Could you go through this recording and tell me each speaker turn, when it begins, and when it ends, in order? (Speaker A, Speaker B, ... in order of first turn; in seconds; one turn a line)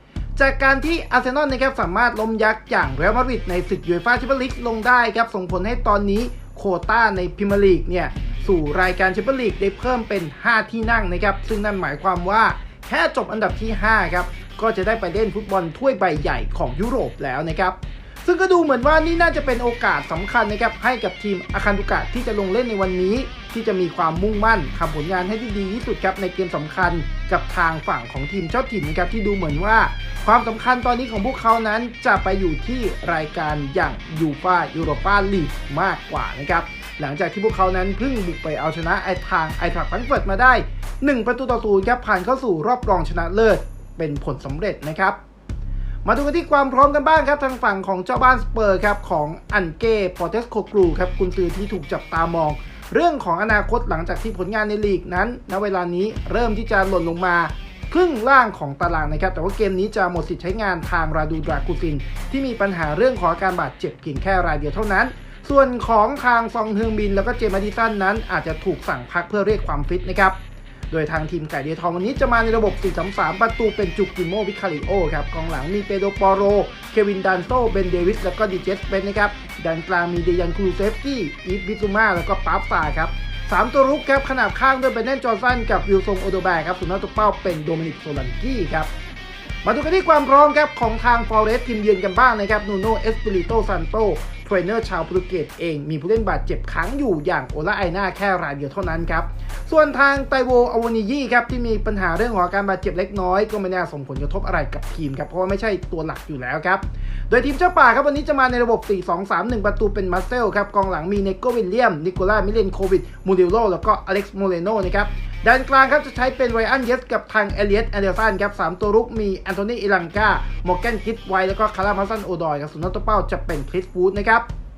Speaker A: 0.3-45.2
Speaker A: 46.0-70.3
Speaker A: 70.9-88.9
Speaker A: 89.6-124.5